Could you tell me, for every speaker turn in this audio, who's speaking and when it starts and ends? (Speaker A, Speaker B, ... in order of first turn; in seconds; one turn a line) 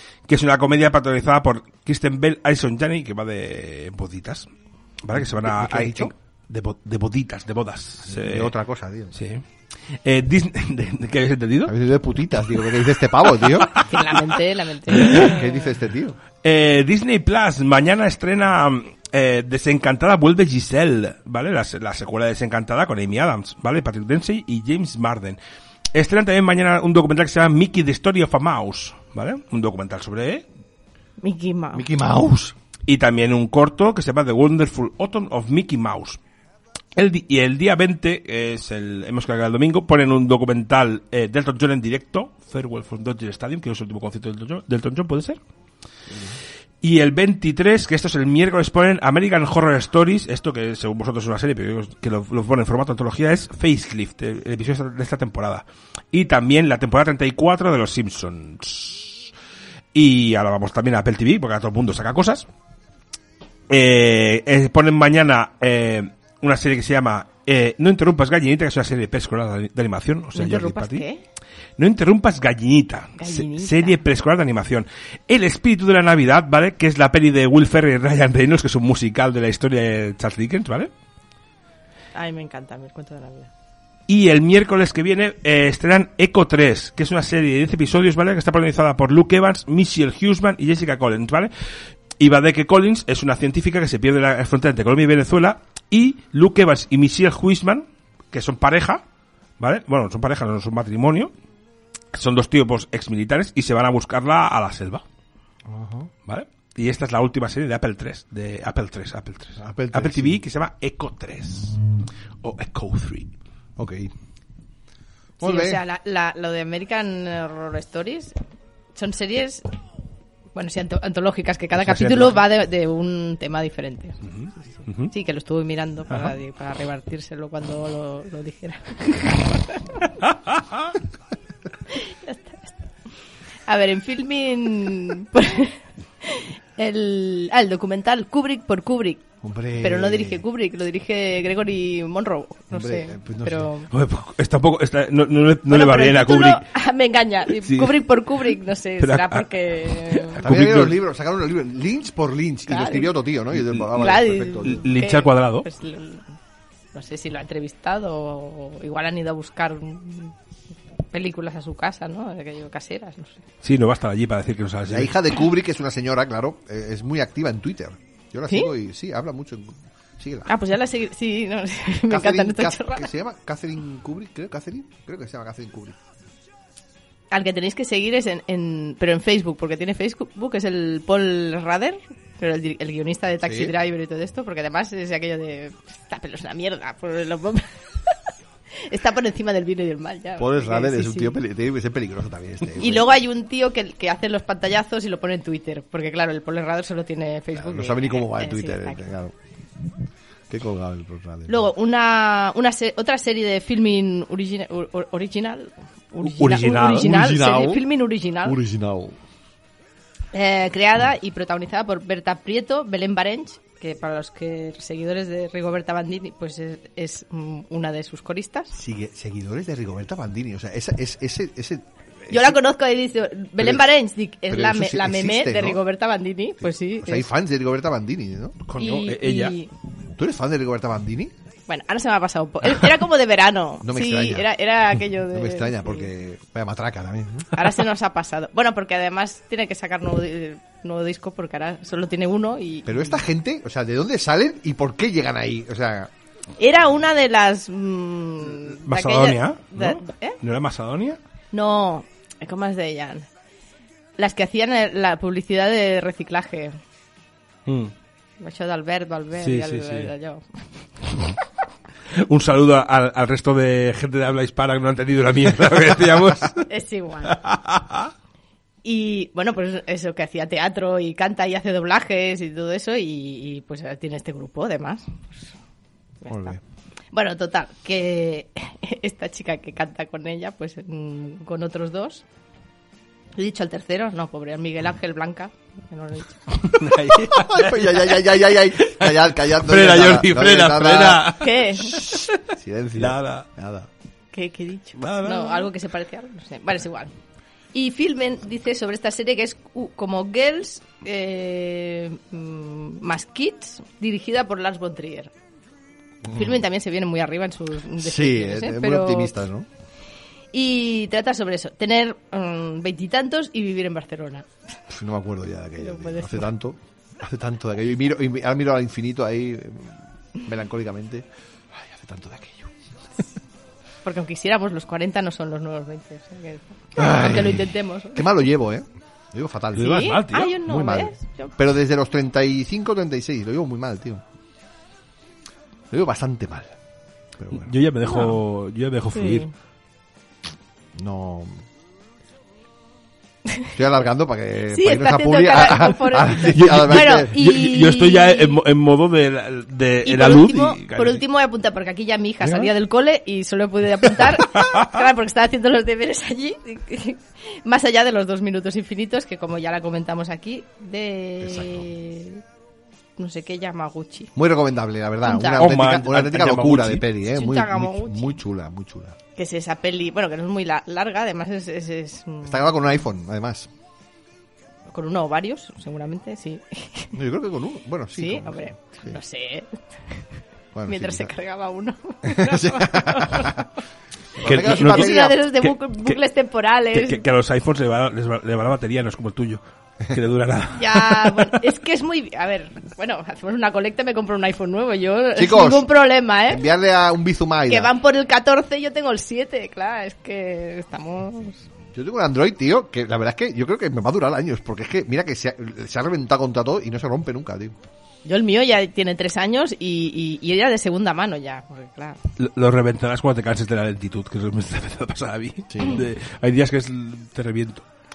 Speaker A: 0.3-4.5
Speaker A: 5.0-8.5
Speaker B: 5.2-6.1
Speaker B: 8.1-9.2
Speaker A: 9.1-9.4
Speaker A: 9.9-11.7
Speaker B: 11.7-13.8
Speaker A: 13.4-14.2
Speaker C: 13.8-15.4
Speaker B: 14.9-16.2
Speaker A: 14.9-15.3
Speaker A: 16.4-25.4
Speaker A: 25.9-30.4
Speaker C: 31.2-31.9
Speaker B: 31.7-32.5
Speaker A: 32.9-36.2
Speaker A: 36.9-45.4
Speaker B: 46.1-46.4
Speaker A: 46.8-59.3
Speaker A: 59.9-62.4
Speaker A: 63.7-71.0
Speaker C: 70.3-71.2
Speaker A: 71.8-80.9
Speaker C: 73.2-74.0
Speaker C: 82.1-83.5
Speaker A: 84.1-91.5
Speaker A: 92.2-99.0
Speaker A: 99.6-101.3
Speaker A: 102.1-105.0
Speaker B: 105.7-106.1
Speaker A: 106.2-111.8
Speaker B: 109.6-110.4
Speaker A: 112.4-113.3
Speaker B: 113.8-114.1
Speaker B: 115.4-115.8
Speaker C: 115.4-118.3
Speaker C: 119.0-119.6
Speaker C: 120.5-124.2
Speaker A: 121.8-122.3
Speaker A: 124.2-125.1
Speaker C: 125.1-130.1
Speaker A: 130.5-130.9
Speaker C: 131.9-132.8
Speaker C: 133.7-139.3
Speaker B: 139.4-140.4
Speaker C: 139.8-143.9
Speaker B: 142.7-143.7
Speaker A: 143.9-146.6
Speaker C: 145.7-150.4
Speaker A: 147.6-148.0
Speaker A: 149.0-151.0
Speaker B: 150.4-154.8
Speaker C: 152.7-153.1
Speaker A: 153.6-155.7
Speaker C: 153.9-156.3
Speaker C: 156.9-160.3
Speaker C: 161.1-163.4
Speaker A: 163.6-165.1
Speaker B: 164.9-170.5
Speaker C: 170.5-173.1
Speaker B: 172.1-176.0
Speaker C: 177.3-188.1
Speaker B: 183.4-183.7
Speaker C: 188.7-191.3
Speaker B: 190.4-193.1
Speaker C: 192.7-199.0
Speaker B: 197.5-199.3
Speaker B: 200.5-201.6
Speaker C: 201.5-208.6
Speaker A: 206.3-207.1
Speaker B: 206.9-207.8
Speaker B: 208.4-209.2
Speaker C: 210.3-218.7
Speaker B: 218.7-222.6
Speaker C: 222.3-227.3
Speaker B: 223.6-223.9
Speaker B: 224.5-225.8
Speaker B: 226.6-228.6
Speaker A: 228.6-229.6
Speaker C: 228.8-229.7
Speaker B: 230.2-231.3
Speaker C: 231.7-236.1
Speaker B: 233.8-234.5
Speaker B: 235.3-237.7
Speaker C: 237.5-243.2
Speaker B: 242.8-246.1
Speaker C: 246.6-250.4
Speaker A: 248.7-251.2
Speaker C: 251.5-253.3
Speaker C: 254.2-256.8
Speaker A: 257.6-257.9
Speaker C: 258.4-260.4
Speaker A: 259.4-260.1
Speaker A: 262.1-266.6
Speaker C: 266.7-267.4
Speaker A: 267.3-268.1
Speaker C: 268.8-275.4
Speaker C: 276.2-276.6
Speaker B: 276.3-276.6
Speaker C: 277.1-282.2
Speaker C: 283.4-286.4
Speaker A: 286.6-288.2
Speaker B: 287.3-291.3
Speaker A: 288.7-292.4
Speaker C: 291.3-292.1
Speaker B: 292.5-293.9
Speaker A: 293.0-293.4
Speaker C: 294.3-297.1
Speaker A: 295.0-295.7
Speaker C: 297.7-305.3
Speaker B: 306.2-306.6
Speaker C: 306.3-309.3
Speaker B: 308.0-309.7
Speaker C: 310.5-314.5
Speaker B: 314.9-323.2
Speaker C: 315.8-316.5
Speaker C: 324.0-328.2
Speaker B: 326.9-334.2
Speaker A: 329.7-330.6
Speaker C: 329.8-331.5
Speaker B: 335.9-336.8
Speaker B: 337.4-337.7
Speaker A: 337.5-339.5
Speaker C: 338.0-338.4
Speaker C: 339.1-339.5
Speaker B: 340.9-341.6
Speaker B: 343.7-347.3
Speaker C: 344.7-348.6
Speaker A: 346.5-351.2
Speaker C: 350.0-362.4
Speaker A: 352.4-352.7
Speaker A: 354.5-354.9
Speaker B: 361.4-361.8
Speaker C: 363.2-364.3
Speaker B: 364.4-369.1
Speaker C: 365.2-365.6
Speaker A: 365.5-367.1
Speaker C: 367.3-368.4
Speaker C: 369.4-372.7
Speaker B: 372.4-373.7
Speaker C: 374.9-377.1
Speaker B: 377.1-379.2
Speaker C: 378.1-380.2
Speaker B: 380.7-381.3
Speaker C: 380.9-383.7
Speaker B: 382.2-383.6
Speaker B: 384.4-385.4
Speaker A: 384.4-386.1
Speaker C: 384.4-387.2
Speaker A: 386.9-391.6
Speaker C: 390.7-396.6
Speaker B: 395.4-395.9
Speaker B: 396.5-397.9
Speaker C: 397.7-401.6
Speaker B: 401.9-407.8
Speaker C: 408.2-412.2
Speaker A: 412.4-417.8
Speaker B: 415.7-416.0